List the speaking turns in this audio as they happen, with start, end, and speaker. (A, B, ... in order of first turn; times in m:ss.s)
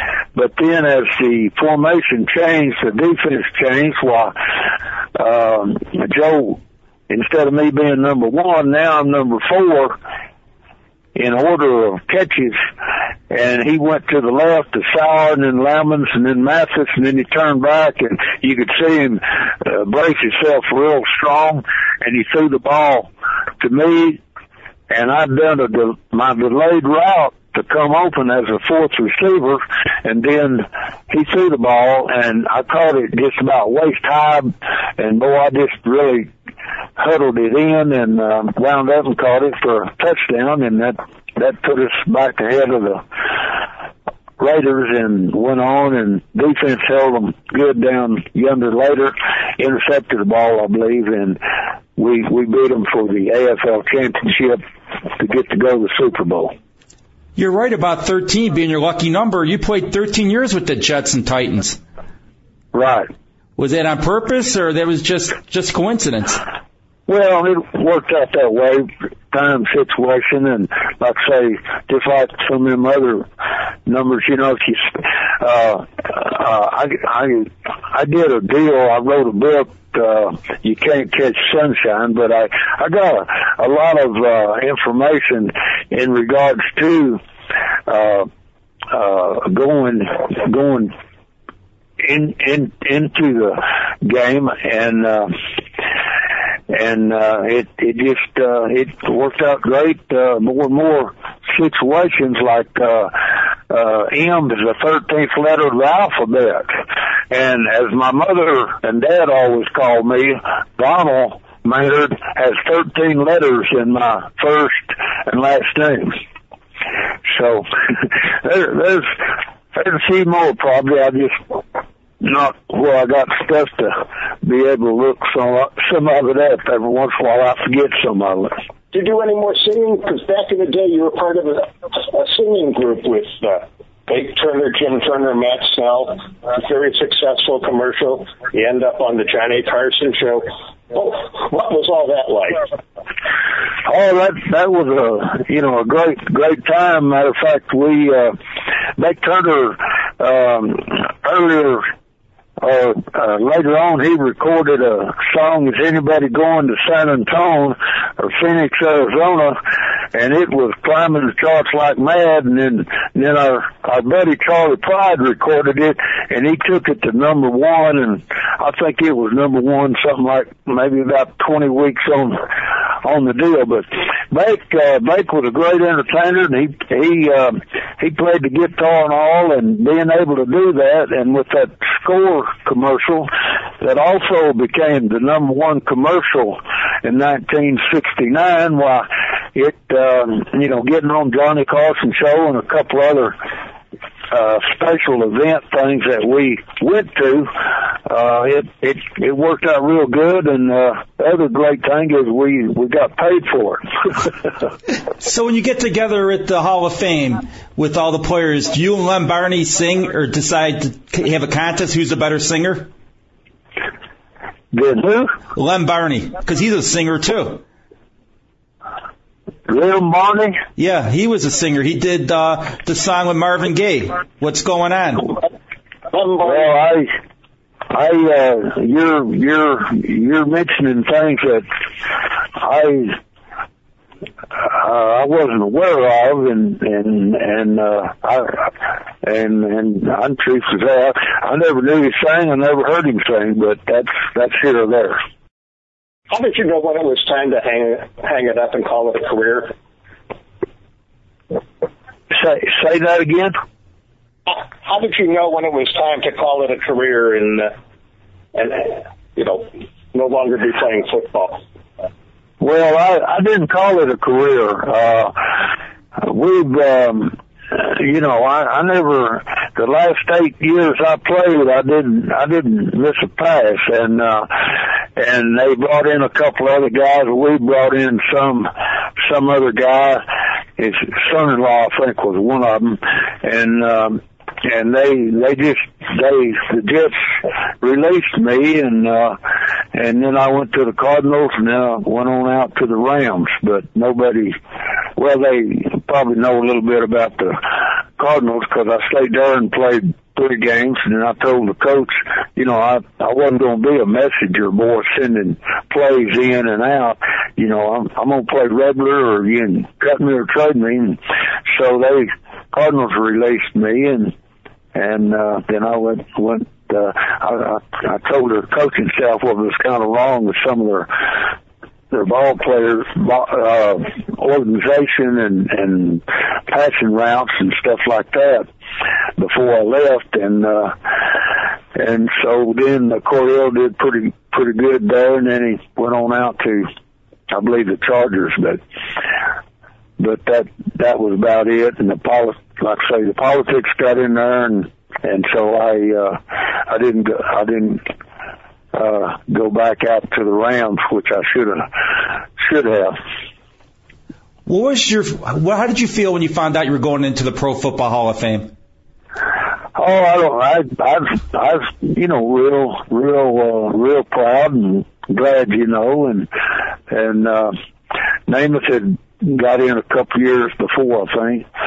0:00.4-0:04.4 A
0:05.1-0:10.0 A
0:11.2-0:12.6 A
0:13.3-0:24.2 A
0:24.9-0:36.3 A
0:37.0-0:43.5 A
0:44.4-0:51.4 A
0:52.0-0:56.5 A
0:57.4-1:01.8 B
1:02.7-1:03.1 A
1:03.6-1:06.4 B
1:07.1-1:13.3 A
1:13.9-1:27.2 A
1:27.9-1:28.3 A
1:28.9-1:30.9 A
1:32.0-1:35.5 A
1:36.7-1:56.2 A
1:57.3-2:01.6 A
2:02.2-2:08.6 A
2:08.9-2:22.7 C
2:23.8-2:28.4 A
2:29.0-2:31.9 A
2:32.6-2:39.6 A
2:40.1-3:13.4 A
3:14.3-3:23.9 A
3:25.2-3:32.9 B
3:34.7-3:35.4 A
3:35.5-3:37.6 B
3:39.7-3:40.6 A
3:40.8-3:45.4 B
3:46.3-3:47.1 A
3:47.9-3:51.7 A
3:52.6-3:53.2 A
3:54.5-4:05.2 A
4:06.3-4:09.7 C
4:12.3-4:13.6 A
4:14.5-4:17.7 C
4:18.5-4:21.6 C
4:22.6-4:40.2 A
4:40.8-4:49.4 A
4:49.9-4:54.6 A
4:55.2-5:14.3 A
5:14.9-5:21.5 A
5:22.1-5:28.7 A
5:29.4-5:36.9 A
5:37.5-5:38.8 A
5:40.2-5:48.0 A
5:48.9-5:53.2 A
5:54.7-5:58.7 B
6:00.0-6:06.5 A
6:07.1-6:07.8 A
6:08.5-6:11.6 A